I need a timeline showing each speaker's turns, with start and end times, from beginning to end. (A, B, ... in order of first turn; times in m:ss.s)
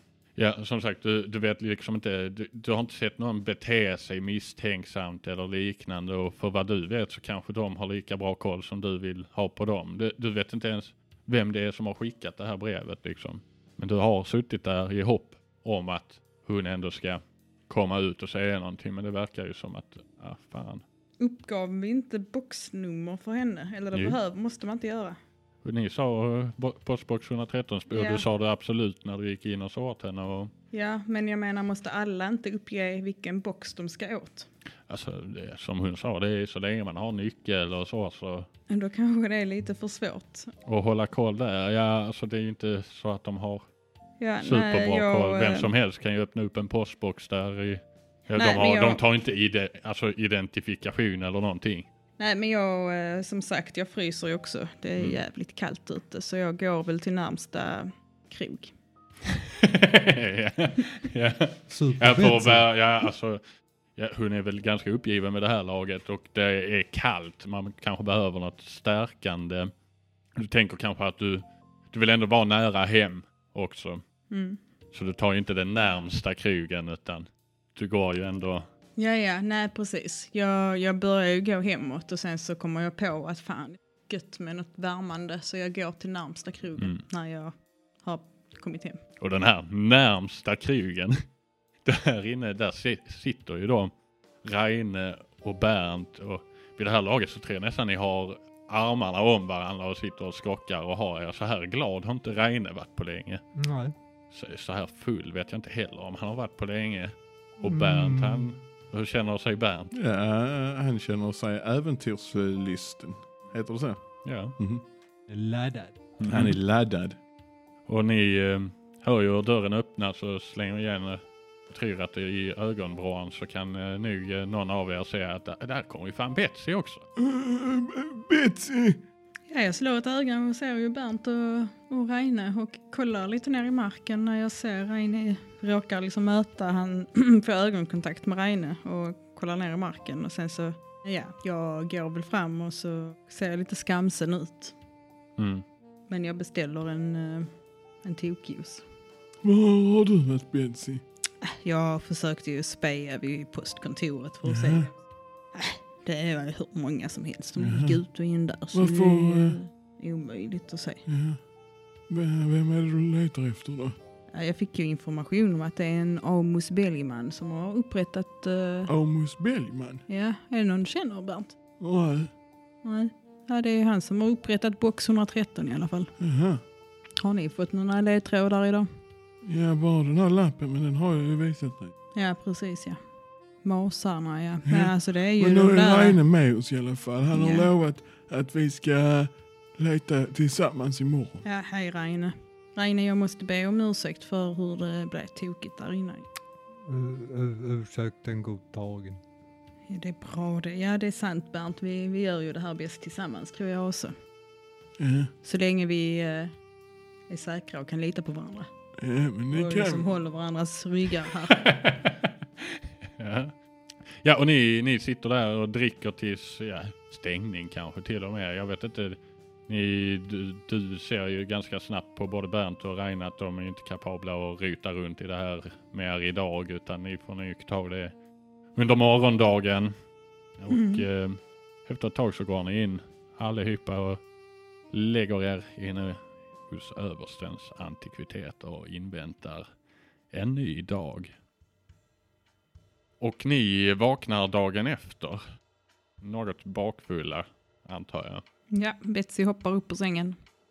0:00.4-0:20.8 A
0:21.2-0:25.2 B
0:25.6-0:30.5 A
0:27.9-0:28.2 B
0:30.7-0:34.5 B
0:34.9-0:38.5 A
0:38.7-0:40.5 B
0:40.7-0:43.6 A
0:44.2-0:45.7 B
0:44.4-0:51.9 A
0:48.4-0:49.0 B
0:52.2-0:58.7 B
0:59.6-1:03.4 A
1:01.7-1:02.7 C
1:04.0-1:09.7 A
1:10.4-1:14.0 A
1:14.3-1:14.6 B
1:14.9-1:18.7 A
1:19.0-1:29.0 B
1:26.8-1:27.0 A
1:29.2-1:31.2 A
1:31.8-1:33.9 A
1:34.4-1:43.4 A
1:43.6-1:43.9 C
1:44.3-1:49.9 A
1:47.6-1:48.6 C
1:49.9-1:54.8 D
1:54.2-1:54.6 A
1:55.3-1:56.0 C
1:56.2-1:56.6 A
1:56.3-1:57.2 D
1:57.9-2:07.0 A
2:07.2-2:09.0 E
2:09.5-2:24.7 B
2:25.4-2:25.6 A
2:26.1-2:27.5 B
2:28.0-2:28.8 B
2:29.4-2:31.0 E
2:31.4-2:35.0 B
2:34.5-2:34.9 E
2:35.5-2:41.0 B
2:37.6-2:38.0 E
2:38.7-2:39.6 E
2:41.1-2:41.4 E
2:42.1-2:44.0 E
2:44.3-2:48.9 B
2:48.9-2:50.0 E
2:50.1-2:51.6 B
2:51.8-2:52.3 E
2:52.8-2:56.1 B
2:56.2-2:56.6 E
2:57.2-2:58.9 B
2:59.4-3:01.9 E
3:02.2-3:03.0 B
3:03.6-3:06.2 B
3:04.7-3:11.4 E
3:07.3-3:07.7 B
3:11.4-3:16.2 B
3:16.8-3:19.2 C
3:19.9-3:24.1 B
3:25.0-3:25.3 E
3:25.4-3:26.5 B
3:27.3-3:28.7 B
3:29.0-3:30.1 E
3:29.5-3:31.7 B
3:31.6-3:33.5 A
3:34.1-3:48.1 A
3:48.8-3:49.9 A
3:50.6-3:54.2 A
3:50.7-3:51.0 B
3:54.9-3:59.7 A
4:00.3-4:01.3 A
4:03.2-4:05.4 A
4:06.2-4:08.4 A
4:08.7-4:10.4 B